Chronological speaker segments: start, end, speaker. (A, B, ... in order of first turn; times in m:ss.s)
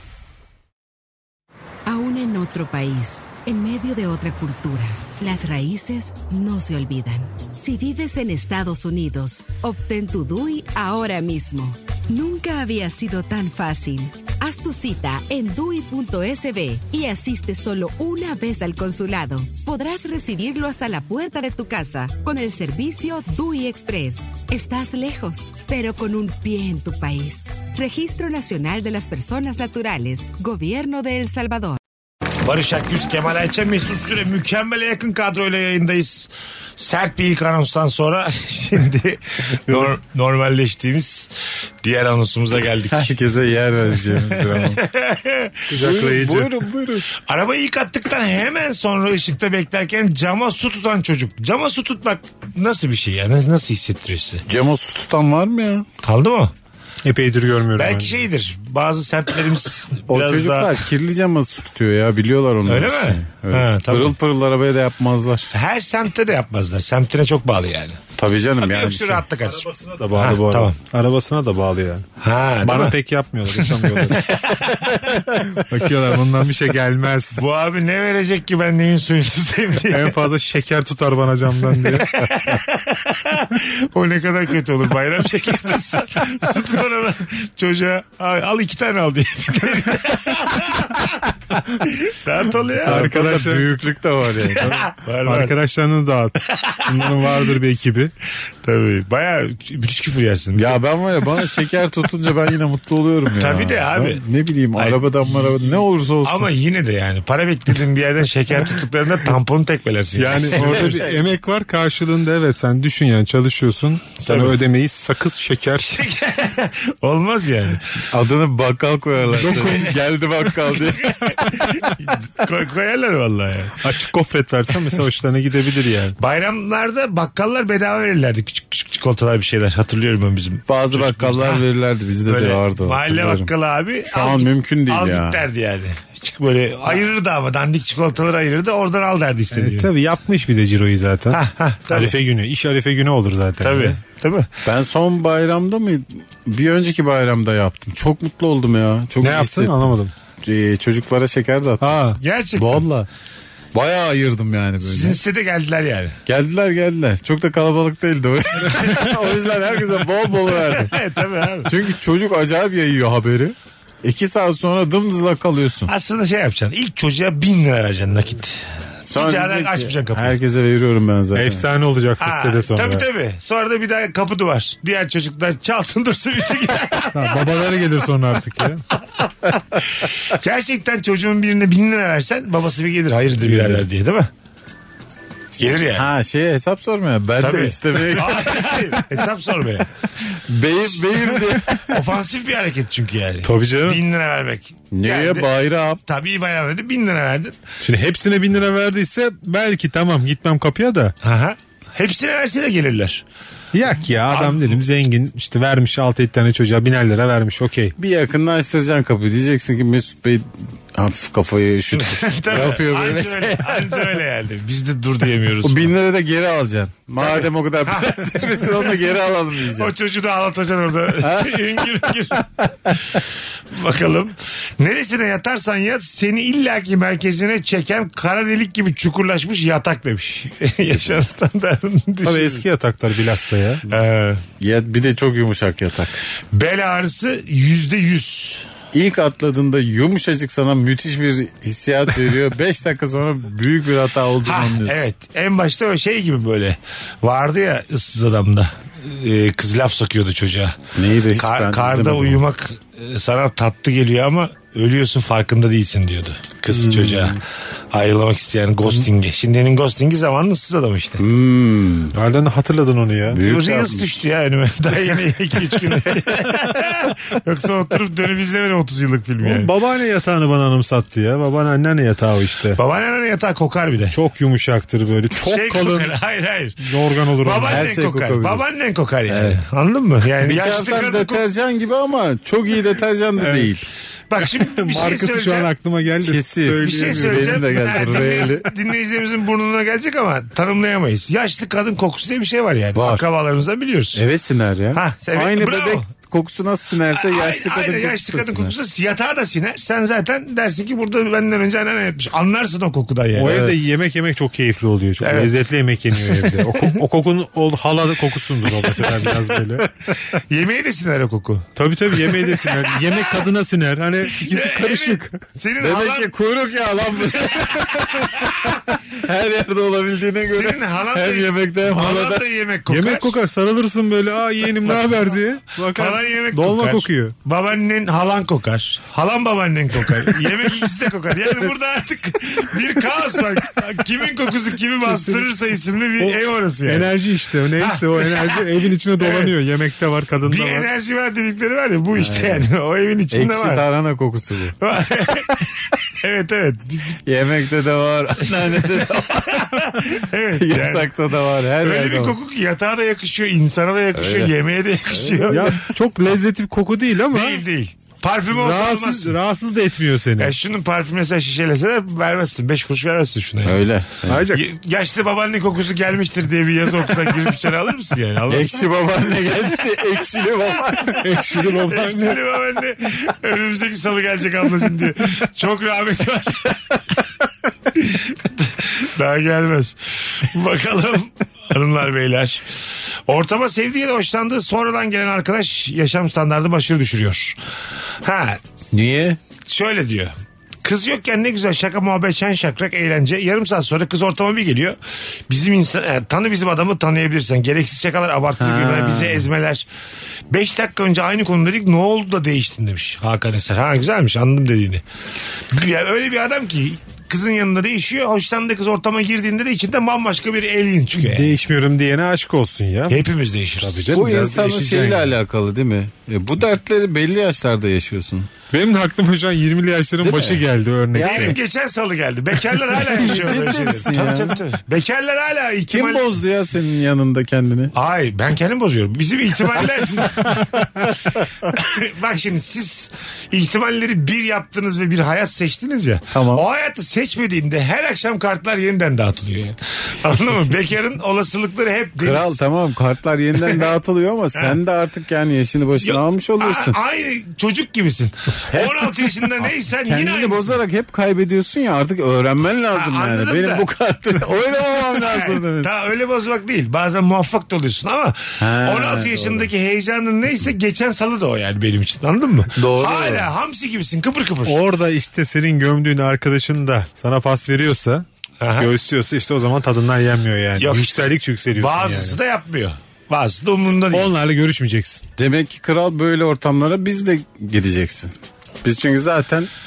0:01.8-0:31.8 A
0:32.4-0:43.2 B
0:42.9-0:44.8 C
0:44.1-0:45.7 B
0:45.7-0:46.6 D
0:45.7-0:47.1 C
0:47.1-0:54.4 B
0:54.5-0:55.8 C
0:56.0-0:56.5 B
0:57.0-0:58.2 D
0:57.8-1:00.9 B
1:00.1-1:05.5 C
1:02.6-1:04.2 B
1:05.5-1:08.0 B
1:08.2-1:09.2 C
1:08.6-1:10.7 B
1:09.4-1:12.0 D
1:12.2-1:12.9 B
1:12.6-1:14.2 D
1:13.5-1:15.2 B
1:15.5-1:17.4 D
1:17.3-1:20.2 B
1:19.9-1:22.2 D
1:21.8-1:33.0 B
1:32.8-1:33.7 D
1:32.8-1:34.8 C
1:34.4-1:35.5 B
1:35.2-1:38.1 D
1:36.5-1:37.5 B
1:38.6-1:41.4 B
1:40.5-1:46.5 C
1:43.3-1:44.2 B
1:44.7-1:51.1 B
1:50.2-1:56.0 D
1:50.5-1:51.2 C
1:54.2-1:54.6 B
1:55.8-1:57.9 B
1:58.1-2:01.5 C
1:59.3-2:00.0 B
1:59.4-1:59.9 D
2:00.7-2:03.8 B
2:03.8-2:06.2 D
2:06.2-2:11.7 B
2:10.7-2:13.5 C
2:12.2-2:19.9 B
2:14.0-2:15.4 C
2:19.5-2:24.0 D
2:21.3-2:22.1 B
2:23.6-2:24.5 B
2:24.6-2:29.9 C
2:29.2-2:30.1 D
2:30.4-2:32.0 C
2:31.8-2:32.2 D
2:32.2-2:32.8 B
2:32.6-2:33.1 C
2:33.7-2:35.2 C
2:34.8-2:36.2 B
2:36.2-2:41.0 C
2:38.6-2:39.2 D
2:40.6-2:41.7 B
2:41.6-2:45.9 C
2:45.9-2:50.4 B
2:49.1-2:51.6 C
2:51.3-2:53.0 D
2:52.2-2:57.5 B
2:57.1-2:58.8 D
2:59.2-3:04.3 B
3:05.6-3:06.1 B
3:06.0-3:08.8 C
3:07.4-3:09.9 B
3:10.3-3:11.9 C
3:11.0-3:15.5 B
3:13.4-3:14.0 D
3:14.9-3:16.0 C
3:16.0-3:17.6 B
3:17.8-3:21.1 D
3:21.2-3:23.2 B
3:23.7-3:27.9 D
3:24.3-3:24.8 B
3:28.0-3:34.1 C
3:31.9-3:35.9 B
3:35.6-3:39.9 C
3:37.2-3:52.6 B
3:41.2-3:42.1 C
3:52.2-3:53.8 D
3:53.9-3:54.4 B
3:54.6-3:56.2 C
3:56.5-3:58.7 B
3:58.9-4:05.0 C
4:04.4-4:10.8 B
4:10.9-4:12.4 C
4:11.3-4:17.4 B
4:16.9-4:17.3 C
4:17.9-4:21.2 B
4:21.2-4:22.1 C
4:22.1-4:23.4 D
4:23.3-4:24.1 C
4:23.3-4:29.7 B
4:29.4-4:32.8 D
4:32.7-4:34.1 B
4:34.1-4:36.1 D
4:35.3-4:41.4 B
4:36.8-4:37.9 D
4:37.7-4:38.6 C
4:39.3-4:39.6 C
4:40.4-4:43.9 C
4:43.4-4:43.7 D
4:44.3-4:45.7 B
4:44.4-4:47.9 D
4:46.2-4:48.7 C
4:46.8-4:54.2 B
4:52.9-4:53.2 C
4:54.1-4:58.7 C
4:54.9-4:56.1 B
4:57.1-5:03.7 B
5:03.3-5:09.9 D
5:03.4-5:03.7 C
5:05.2-5:05.6 B
5:06.2-5:07.0 B
5:08.9-5:09.3 B
5:10.3-5:13.5 B
5:11.8-5:15.4 D
5:14.2-5:16.3 B
5:15.8-5:22.4 C
5:17.1-5:18.8 B
5:20.4-5:23.3 B
5:22.9-5:27.3 D
5:24.8-5:25.3 B
5:25.9-5:37.1 B
5:36.2-5:40.9 D
5:37.8-5:39.5 B
5:40.4-5:43.8 B
5:42.2-5:42.6 C
5:43.3-5:44.8 C
5:44.8-5:47.2 B
5:47.2-5:49.8 C
5:48.4-5:51.2 B
5:50.6-5:52.4 C
5:51.8-5:55.8 B
5:54.1-5:54.5 C
5:55.1-5:55.7 C
5:55.5-5:57.6 D
5:57.3-5:59.3 B
5:58.5-6:00.5 D
6:00.4-6:03.8 B
6:03.6-6:04.4 C
6:04.3-6:04.6 D
6:04.5-6:08.8 B
6:08.5-6:11.7 C
6:11.1-6:12.4 D
6:11.7-6:17.2 B
6:17.9-6:27.6 B
6:28.2-6:28.6 B
6:28.9-6:29.4 C
6:29.6-6:35.0 B
6:35.5-6:39.9 B
6:38.6-6:39.5 C
6:40.5-6:45.0 B
6:45.7-6:51.5 B
6:51.2-6:53.2 D
6:53.1-6:54.1 B
6:53.8-6:55.3 D
6:54.1-6:58.5 C
6:58.7-7:01.6 D
7:00.2-7:01.6 C
7:01.2-7:06.4 B
7:02.9-7:04.6 C
7:05.9-7:07.9 C
7:07.9-7:10.8 B
7:11.6-7:22.6 B
7:16.3-7:16.6 C
7:22.2-7:27.0 C
7:23.6-7:23.9 B
7:26.0-7:30.8 B
7:28.7-7:28.9 C
7:30.0-7:36.0 C
7:32.9-7:44.8 B
7:38.6-7:39.7 C
7:42.7-7:43.5 C
7:44.6-7:48.2 D
7:48.6-7:48.9 B
7:48.8-7:52.4 D
7:50.8-7:54.3 B
7:54.1-7:55.2 D
7:55.4-7:58.3 C
7:58.8-7:59.7 C